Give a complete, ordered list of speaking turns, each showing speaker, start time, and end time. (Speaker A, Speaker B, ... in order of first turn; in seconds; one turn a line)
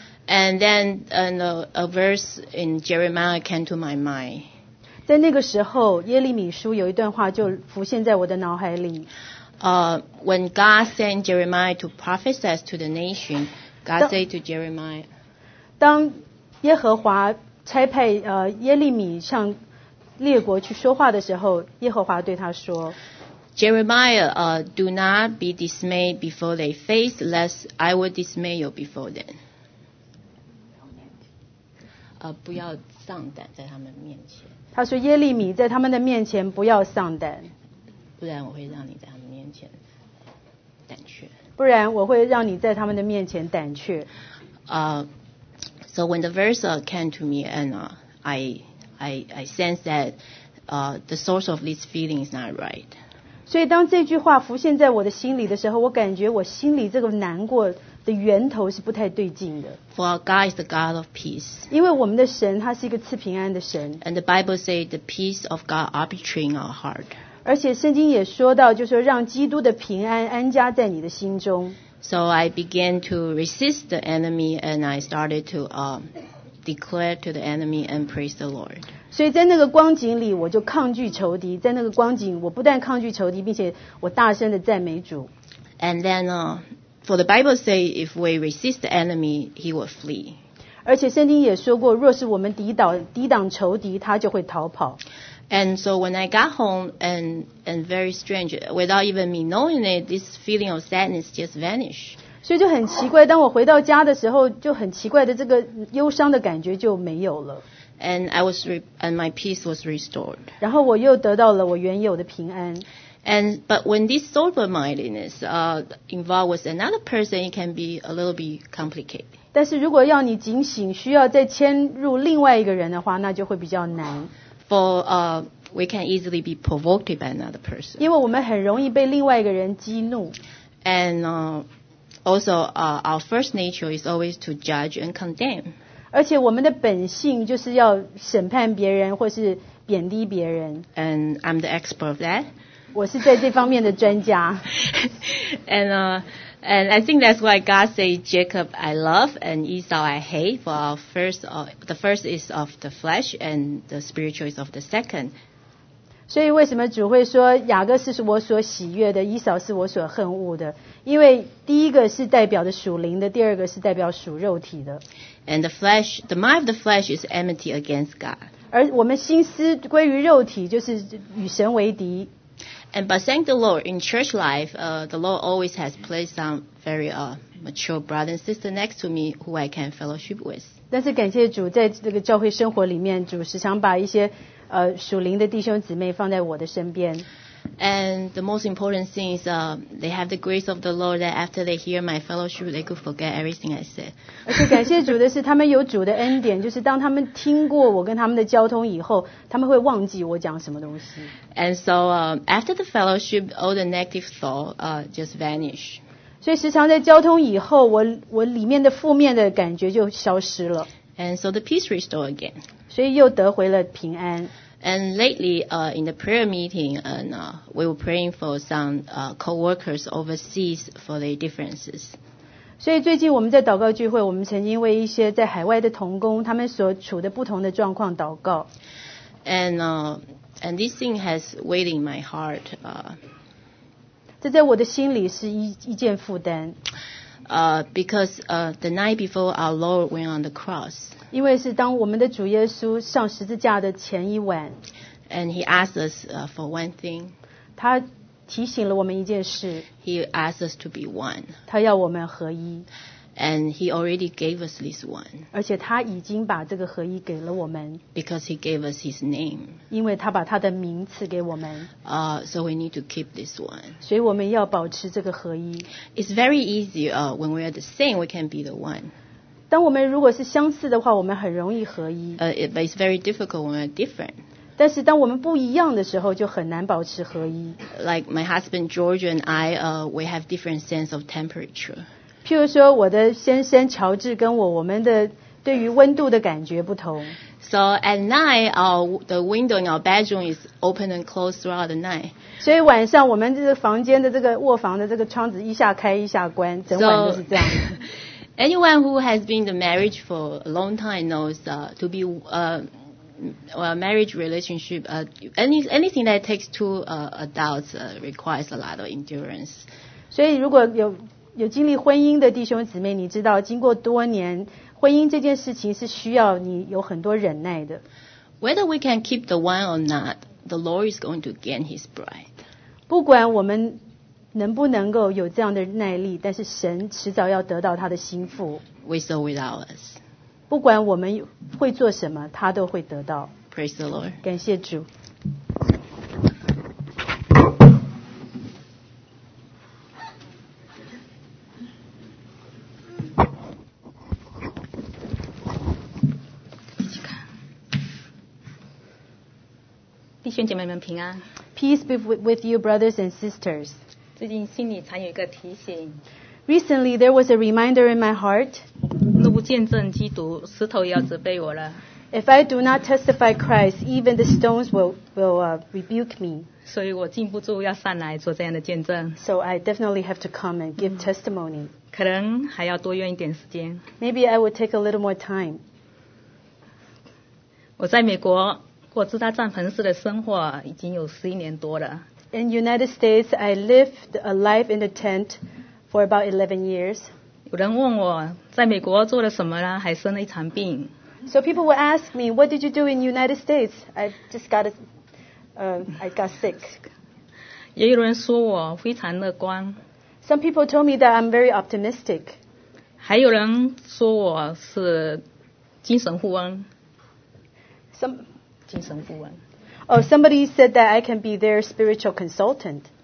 Speaker A: 0.3-4.5
Speaker B: 5.1-9.1
Speaker A: 9.6-15.1
Speaker B: 15.8-19.6
Speaker B: 20.2-23.0
Speaker A: 23.6-29.4
Speaker A: 32.2-34.5
Speaker B: 34.8-37.5
Speaker A: 38.2-39.8
Speaker A: 40.9-41.3
Speaker B: 41.6-44.1
Speaker A: 44.7-45.1
Speaker A: 45.9-53.0
Speaker B: 53.5-59.8
Speaker A: 59.9-61.7
Speaker B: 61.7-64.0
Speaker A: 64.0-67.2
Speaker B: 67.5-71.8
Speaker A: 72.0-76.1
Speaker A: 76.6-78.9
Speaker B: 79.1-85.3
Speaker A: 85.8-90.4
Speaker B: 90.9-95.0
Speaker A: 95.5-102.2
Speaker B: 102.4-107.6
Speaker A: 108.0-110.5
Speaker B: 110.6-112.9
Speaker A: 113.2-119.3
Speaker B: 119.5-124.3
Speaker A: 124.7-128.1
Speaker B: 128.0-130.3
Speaker A: 130.8-131.7
Speaker A: 132.2-135.8
Speaker B: 136.1-140.9
Speaker A: 141.0-142.5
Speaker B: 142.9-144.7
Speaker A: 144.9-155.3
Speaker B: 156.3-165.0
Speaker A: 165.5-168.5
Speaker B: 168.7-172.3
Speaker A: 172.9-180.8
Speaker B: 180.9-187.2
Speaker A: 187.8-194.1
Speaker B: 194.5-201.3
Speaker A: 201.5-206.0
Speaker B: 206.4-210.9
Speaker A: 211.2-212.6
Speaker B: 212.9-214.5
Speaker A: 214.8-222.2
Speaker B: 222.8-228.7
Speaker A: 229.4-233.2
Speaker B: 234.4-236.8
Speaker A: 237.5-241.2
Speaker B: 241.3-244.8
Speaker A: 245.3-247.3
Speaker B: 247.8-249.9
Speaker A: 250.0-251.6
Speaker B: 251.7-252.9
Speaker A: 253.4-255.4
Speaker B: 255.5-258.0
Speaker A: 258.1-259.8
Speaker B: 259.9-261.9
Speaker A: 262.1-264.0
Speaker B: 264.0-265.9
Speaker A: 266.1-269.1
Speaker B: 269.7-272.4
Speaker A: 272.4-274.4
Speaker B: 274.8-277.8
Speaker A: 277.9-282.1
Speaker B: 282.4-287.4
Speaker A: 287.6-292.3
Speaker B: 292.6-297.9
Speaker A: 296.9-298.1
Speaker A: 298.6-309.9
Speaker B: 310.3-318.0
Speaker A: 318.6-322.5
Speaker B: 323.1-324.0
Speaker B: 324.5-328.8
Speaker A: 329.0-330.2
Speaker B: 330.7-333.5
Speaker A: 333.7-334.4
Speaker B: 334.4-335.1
Speaker C: 350.4-351.4
Speaker B: 351.8-354.0
Speaker C: 354.4-356.2
Speaker B: 356.7-358.9
Speaker C: 359.2-362.0
Speaker B: 362.3-366.7
Speaker C: 366.9-369.4
Speaker B: 369.4-371.9
Speaker C: 372.1-374.0
Speaker B: 374.2-375.8
Speaker C: 378.0-382.2
Speaker B: 382.5-387.3
Speaker C: 387.7-391.1
Speaker B: 391.5-394.9
Speaker B: 395.8-397.0
Speaker C: 398.0-400.0
Speaker B: 400.4-402.6
Speaker C: 403.2-405.4
Speaker C: 406.0-406.9
Speaker B: 408.1-408.4
Speaker C: 408.9-409.6
Speaker B: 410.1-413.1